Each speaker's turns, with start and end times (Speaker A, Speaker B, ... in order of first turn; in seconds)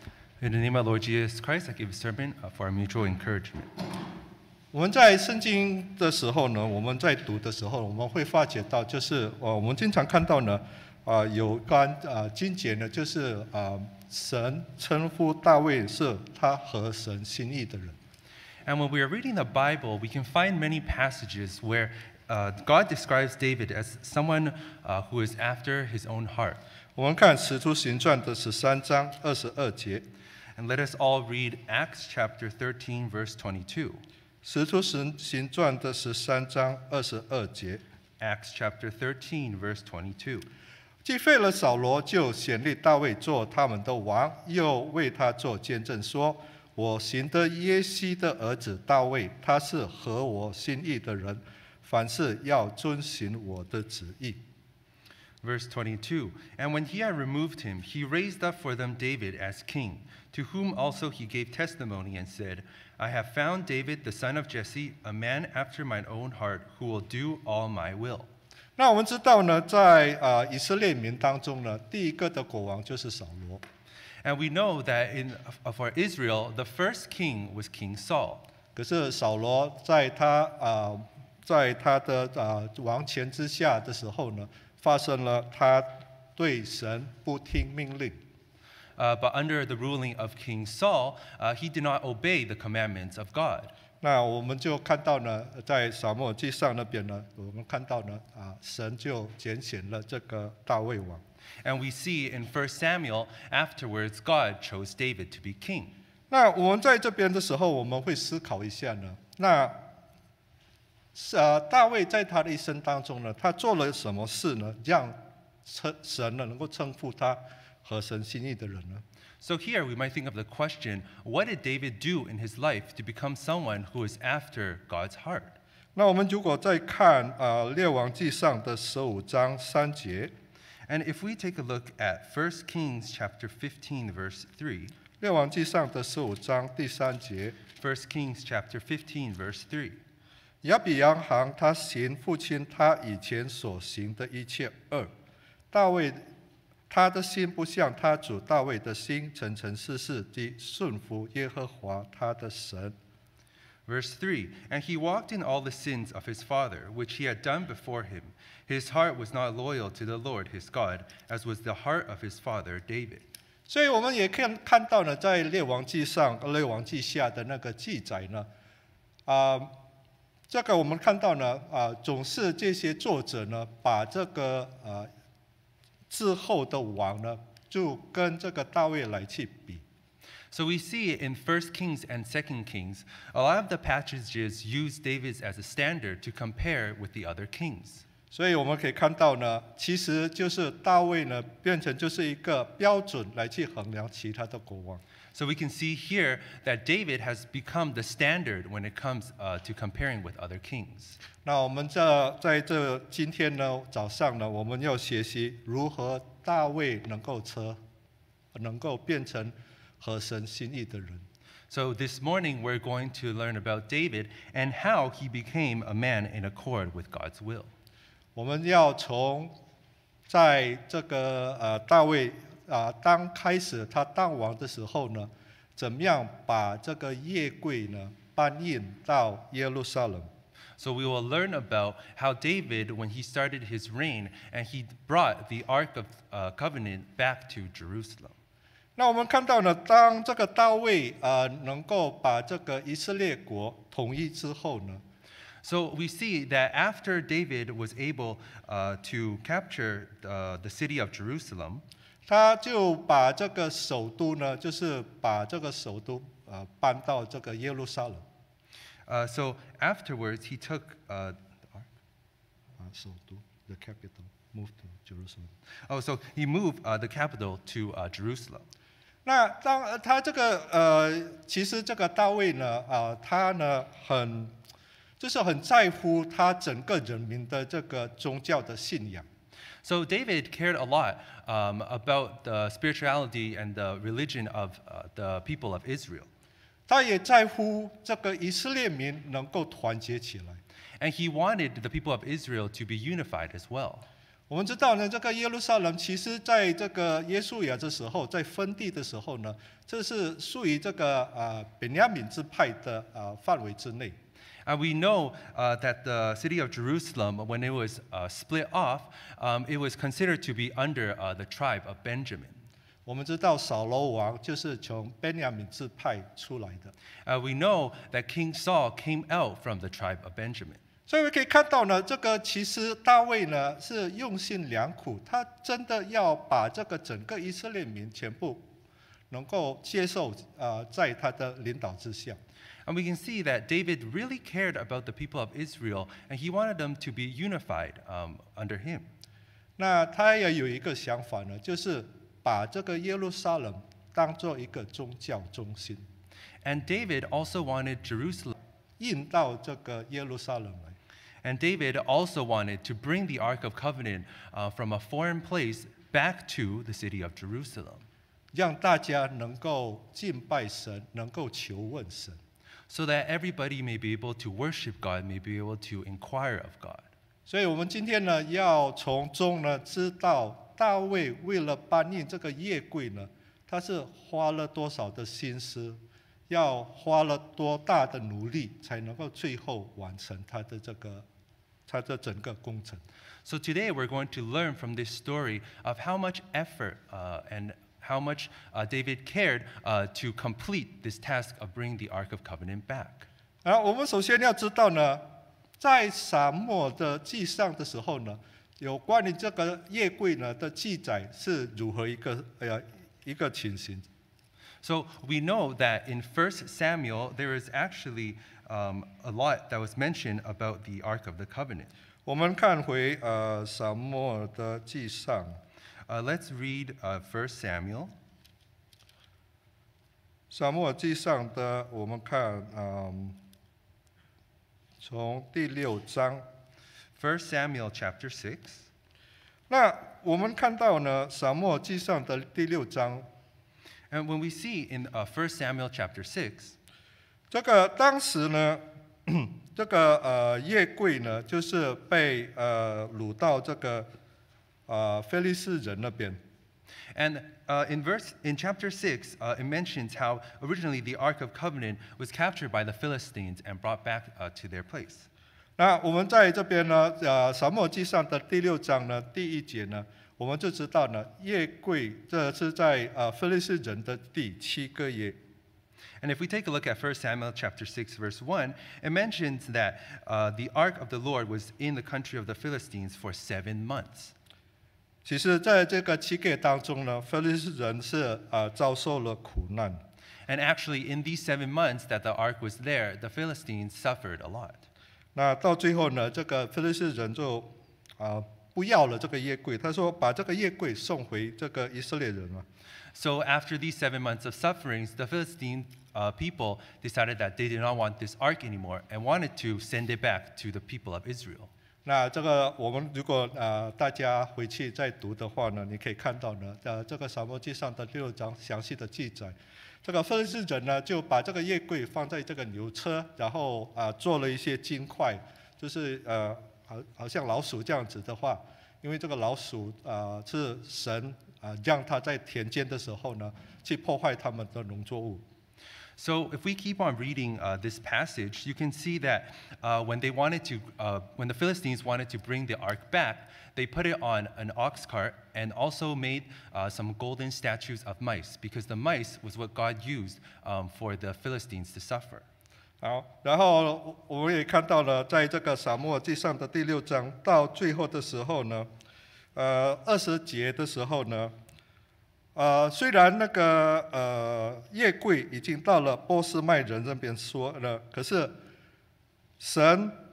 Speaker A: 0.4-3.7, 18.7-26.6, 30.6-34.0, 38.2-40.5, 55.4-68.3, 74.2-78.5, 89.0-93.7, 101.6-105.9, 119.4-125.6, 130.9-135.0, 137.8-140.0, 153.9-163.2, 180.5-188.0, 195.3-201.2, 211.7-217.7, 230.8-238.4, 245.6-251.8, 259.1-261.9, 265.9-268.7, 279.8-286.3, 291.0-294.1, 304.6-312.6, 317.2-320.8, 332.9-339.1, 346.6-348.6, 351.4-358.1, 362.9-367.1, 383.4-393.3, 404.8-411.9, 416.1-418.1, 427.2-428.9, 434.1-436.8, 447.1-455.3, 466.2-474.3, 480.5-484.8, 493.1-501.7, 526.2-542.5
Speaker B: 4.7-18.0, 27.0-30.1, 34.4-37.8, 41.0-54.4, 68.8-73.6, 78.8-88.2, 94.0-101.2, 106.3-109.8, 111.1-119.0, 126.0-130.3, 135.2-137.6, 140.6-145.1, 145.7-146.2, 146.9-152.9, 163.7-168.5, 169.3-169.7, 170.5-175.1, 176.1-179.8, 188.3-195.0, 201.4-207.8, 208.5-211.3, 218.4-219.6, 220.3-230.3, 239.0-245.0, 252.3-258.2, 262.8-265.5, 269.2-274.5, 275.2-279.3, 286.9-290.6, 294.5-304.2, 313.1-316.9, 321.1-328.7, 329.3-332.4, 339.8-346.1, 349.0-351.0, 358.5-362.4, 367.5-381.2, 381.9-383.0, 393.6-395.2, 395.8-404.1, 412.3-415.6, 420.5-423.4, 425.0-426.4, 429.7-433.3, 437.5-444.1, 444.9-446.4, 455.8-465.4, 475.2-480.0, 485.4-492.7, 502.1-525.4, 543.0-548.9, 549.5-551.5, 552.5-558.6, 559.6-560.2